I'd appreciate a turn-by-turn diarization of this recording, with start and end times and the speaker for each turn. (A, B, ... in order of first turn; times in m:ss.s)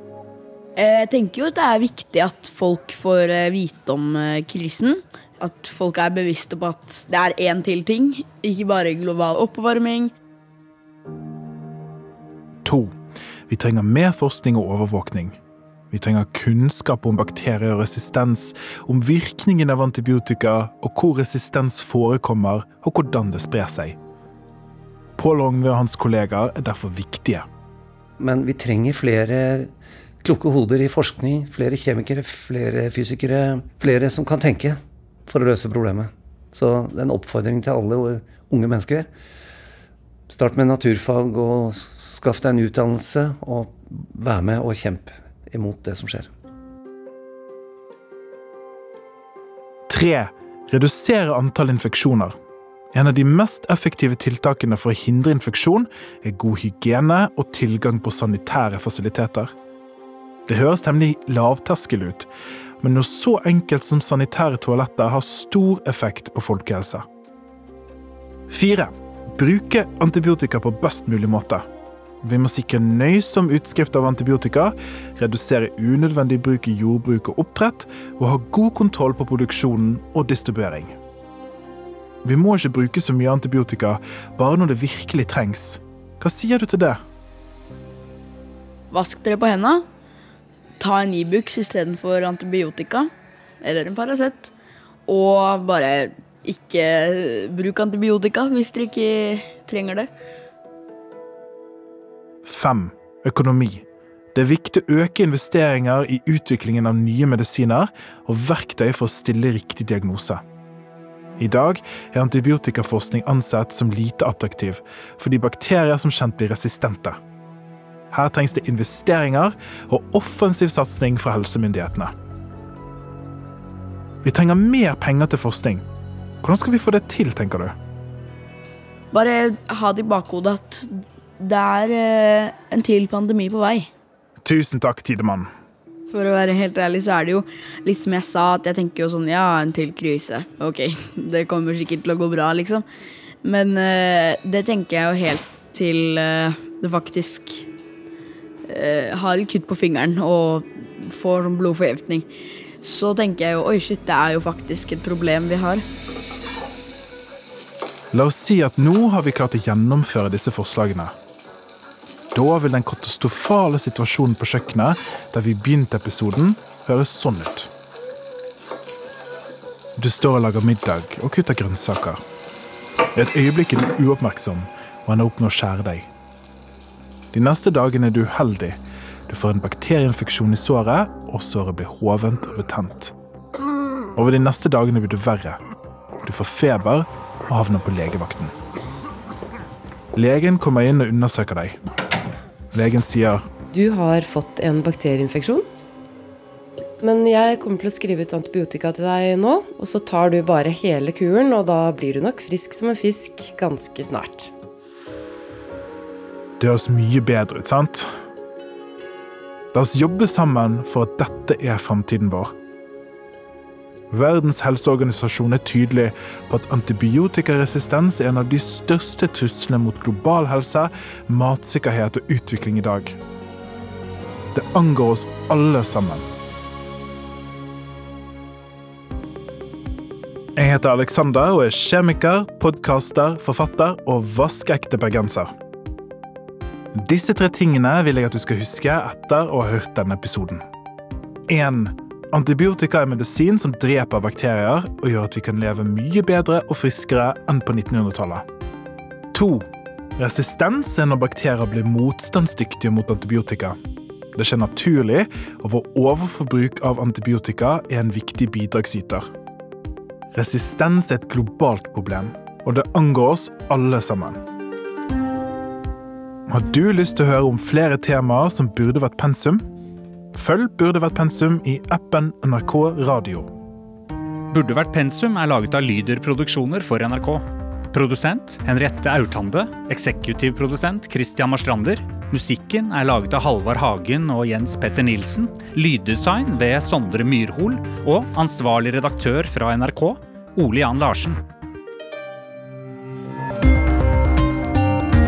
0:00.8-0:10.1 A
0:12.6-0:12.9 B
0:13.5-0:15.4 B
0:15.9-0:24.0 B
0:25.2-0:27.4 B
0:28.2-0:29.7 C
0:30.2-0:39.1 C
0:40.3-0:46.3 C
0:49.9-0:52.3 B
0:52.9-0:59.5 B
1:00.5-1:02.3 B
1:02.8-1:07.0 B
1:08.5-1:11.6 B
1:12.2-1:20.9 B
1:22.2-1:27.0 B
1:28.9-1:29.9 A
1:30.8-1:33.1 A
1:33.6-1:34.5 A
1:35.1-1:40.1 A
1:42.4-1:50.4 B
1:51.4-1:57.2 B
1:58.1-2:02.1 B
2:04.2-2:05.8 B
2:06.4-2:07.7 B
2:09.1-2:13.9 A
2:14.4-2:15.5 B
2:16.1-2:22.8 A
2:23.4-2:27.7 A
2:28.6-2:32.3 A
2:32.8-2:35.8 A
2:38.1-2:41.1 B
2:42.3-2:47.7 B
2:50.0-2:52.2 B
2:53.1-2:56.1 B
2:57.3-3:03.1 B
3:04.2-3:05.6 B
3:06.2-3:08.5 B
3:10.1-3:11.8 B
3:12.7-3:13.4 B
3:13.7-3:15.6 D
3:17.0-3:24.5 D
3:26.6-3:28.1 B
3:29.7-3:32.5 B
3:34.1-3:43.2 B
3:44.5-3:46.3 B
3:50.6-3:55.5 B
3:56.9-4:00.6 B
4:01.5-4:08.4 B
4:09.3-4:09.6 B
4:10.2-4:13.8 B
4:14.4-4:19.3 B
4:20.3-4:24.4 B
4:26.5-4:29.6 B
4:30.3-4:33.5 B
4:34.5-4:51.4 E